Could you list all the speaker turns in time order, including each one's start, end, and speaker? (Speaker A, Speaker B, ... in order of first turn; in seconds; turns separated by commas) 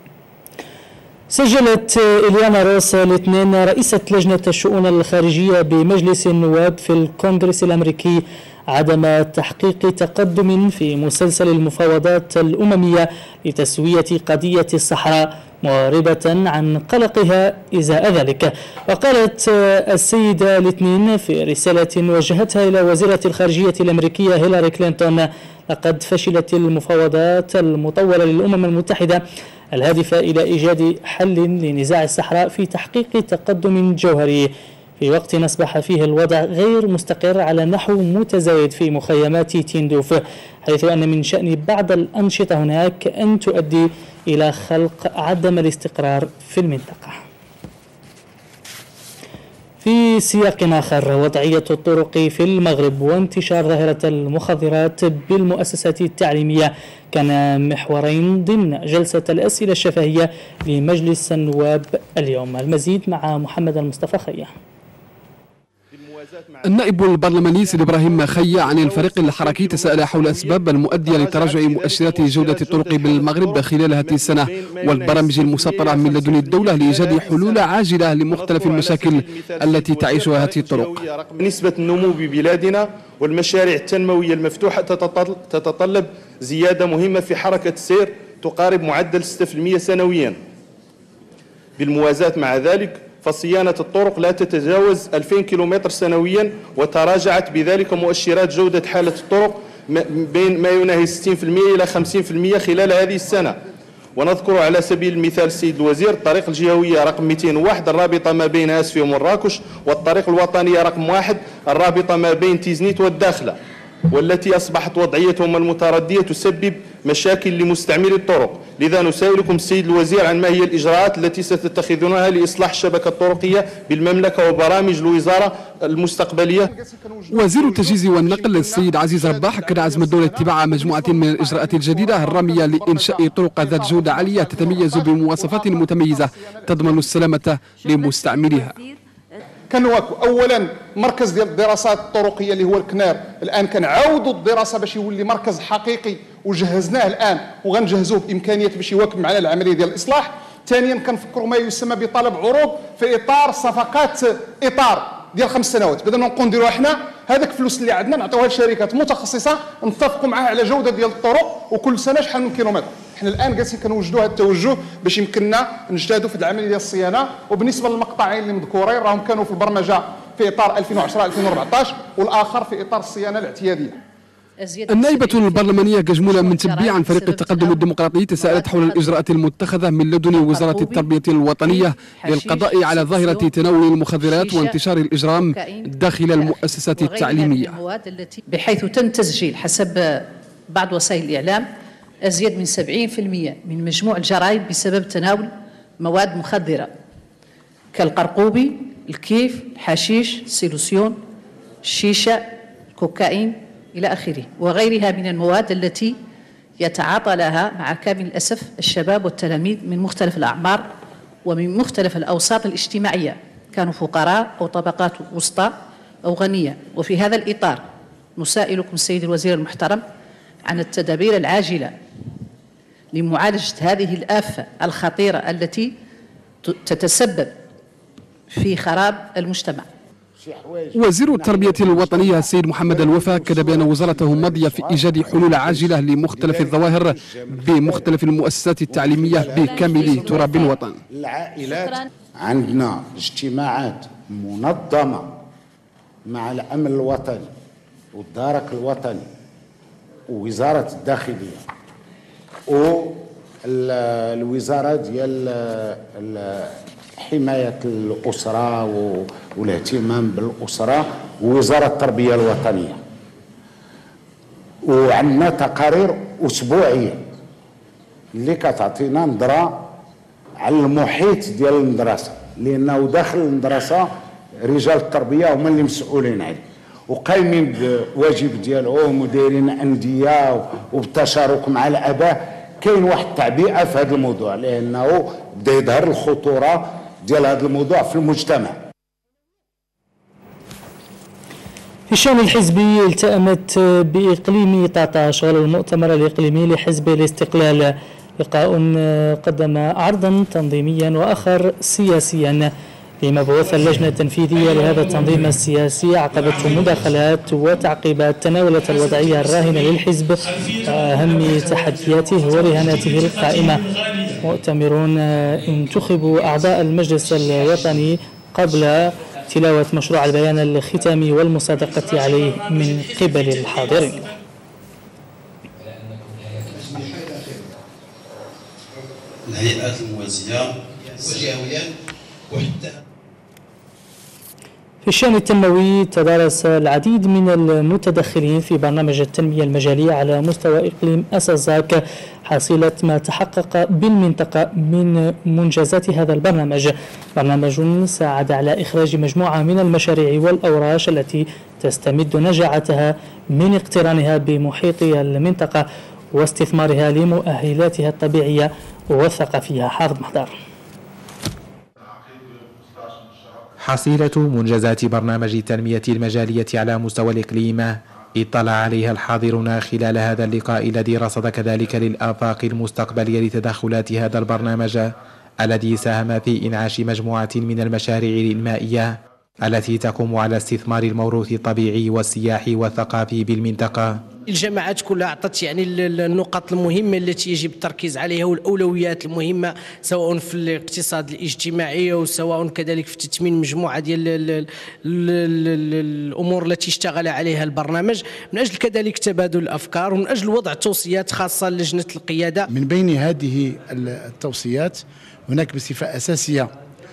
Speaker A: 1.3-29.2, Speaker A: 29.7-47.2, Speaker A: 49.8-64.5, Speaker B: 65.9-77.7, Speaker C: 66.7-81.0, Speaker B: 78.3-90.4, Speaker B: 91.8-103.6, Speaker B: 104.2-113.6, Speaker B: 114.1-126.7, Speaker D: 126.7-137.1, Speaker C: 127.3-138.8, Speaker D: 139.7-174.0, Speaker E: 174.6-179.2, Speaker C: 174.9-187.8, Speaker E: 180.3-181.1, Speaker E: 181.6-184.8, Speaker E: 185.3-191.7, Speaker E: 192.2-196.9, Speaker E: 197.9-201.2, Speaker E: 201.8-206.2, Speaker E: 206.8-210.9, Speaker E: 211.4-217.8, Speaker E: 218.4-220.0, Speaker E: 220.6-221.9, Speaker E: 223.1-225.9, Speaker E: 226.6-227.6, Speaker E: 228.5-229.9, Speaker F: 230.4-238.2, Speaker C: 230.9-241.0, Speaker F: 238.9-245.4, Speaker F: 246.3-247.5, Speaker F: 248.1-249.3, Speaker F: 250.3-251.6, Speaker F: 252.7-263.0, Speaker F: 264.8-267.2, Speaker F: 268.4-269.9, Speaker F: 270.6-274.1, Speaker F: 274.6-288.8, Speaker A: 292.1-302.7, Speaker A: 303.2-313.8, Speaker A: 314.4-324.3, Speaker G: 329.5-331.9, Speaker G: 332.5-332.9, Speaker A: 335.0-360.5, Speaker G: 363.8-384.2, Speaker H: 384.5-402.7, Speaker I: 402.7-406.7